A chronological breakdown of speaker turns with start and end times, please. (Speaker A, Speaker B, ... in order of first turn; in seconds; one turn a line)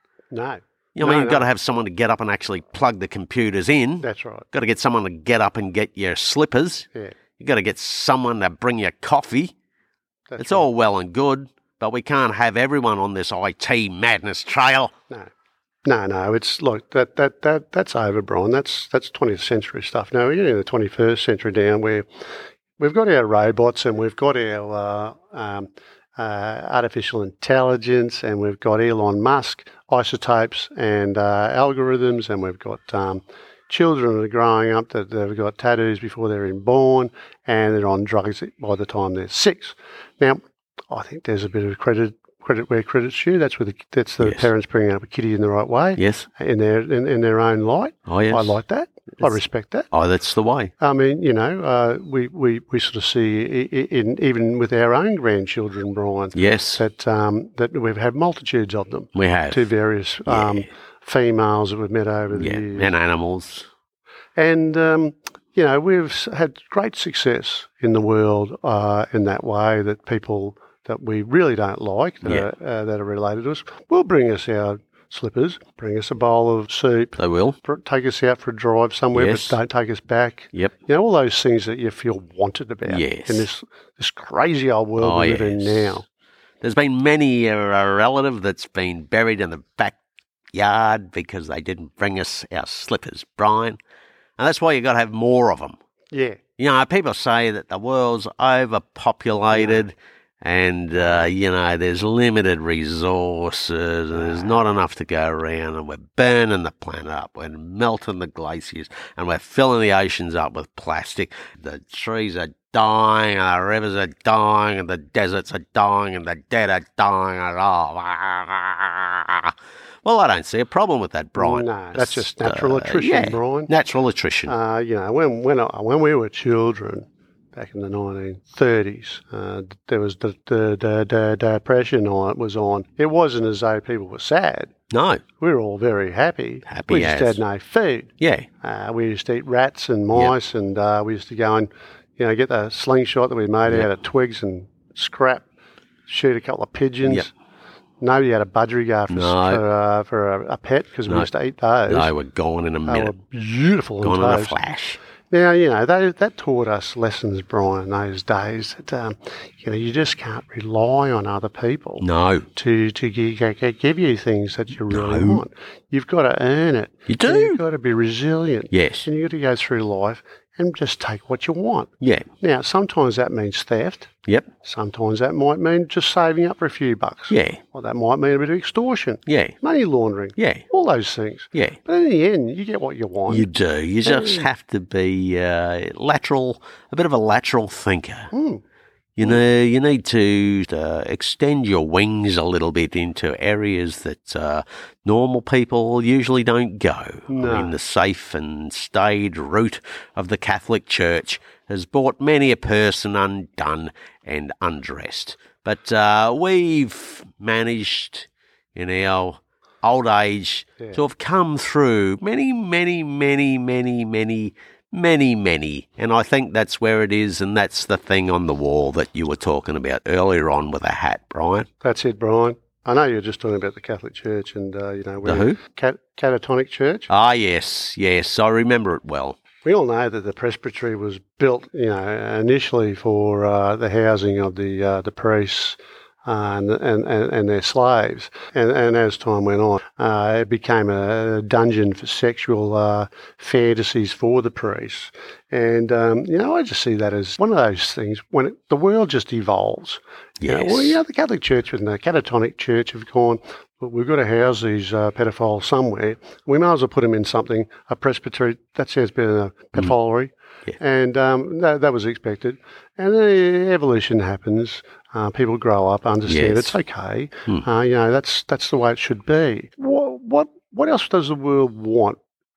Speaker A: 0.3-1.4
Speaker B: 0.9-6.9
Speaker A: 4.0-4.5
Speaker B: 7.4-9.5
Speaker A: 10.3-10.7
Speaker B: 10.4-14.9
Speaker A: 15.8-22.1
Speaker A: 22.8-49.9
Speaker B: 44.2-44.5
Speaker B: 46.0-46.3
Speaker B: 48.1-48.5
Speaker B: 49.9-50.7
Speaker A: 50.8-62.9
Speaker B: 56.3-56.8
Speaker B: 59.1-59.7
Speaker B: 60.3-60.7
Speaker B: 62.3-63.7
Speaker A: 64.4-86.0
Speaker B: 77.2-77.6
Speaker B: 79.1-79.6
Speaker B: 82.9-83.5
Speaker B: 85.0-86.0
Speaker B: 86.6-90.0
Speaker B: 90.5-93.8
Speaker B: 94.4-95.8
Speaker A: 96.1-96.4
Speaker B: 96.6-124.5
Speaker A: 99.5-99.8
Speaker A: 104.2-104.4
Speaker A: 121.4-123.7
Speaker A: 124.5-134.7
Speaker B: 134.9-135.2
Speaker A: 135.4-145.4
Speaker B: 136.7-137.4
Speaker B: 138.2-138.5
Speaker A: 146.1-147.3
Speaker A: 148.0-152.1
Speaker B: 149.1-149.6
Speaker B: 151.9-153.1
Speaker A: 152.8-154.6
Speaker B: 154.0-155.0
Speaker A: 155.3-183.5
Speaker B: 162.0-162.5
Speaker B: 164.9-165.4
Speaker B: 167.1-167.6
Speaker B: 168.7-169.1
Speaker B: 172.0-172.3
Speaker B: 177.3-177.6
Speaker B: 179.2-179.6
Speaker B: 180.4-180.6
Speaker B: 181.5-181.8
Speaker B: 183.3-188.3
Speaker A: 184.0-184.5
Speaker A: 188.3-188.6
Speaker B: 189.2-221.7
Speaker A: 197.3-197.7
Speaker A: 221.8-227.1
Speaker B: 225.2-225.6
Speaker B: 227.1-229.4
Speaker A: 229.6-272.2
Speaker B: 250.4-251.0
Speaker B: 266.3-266.8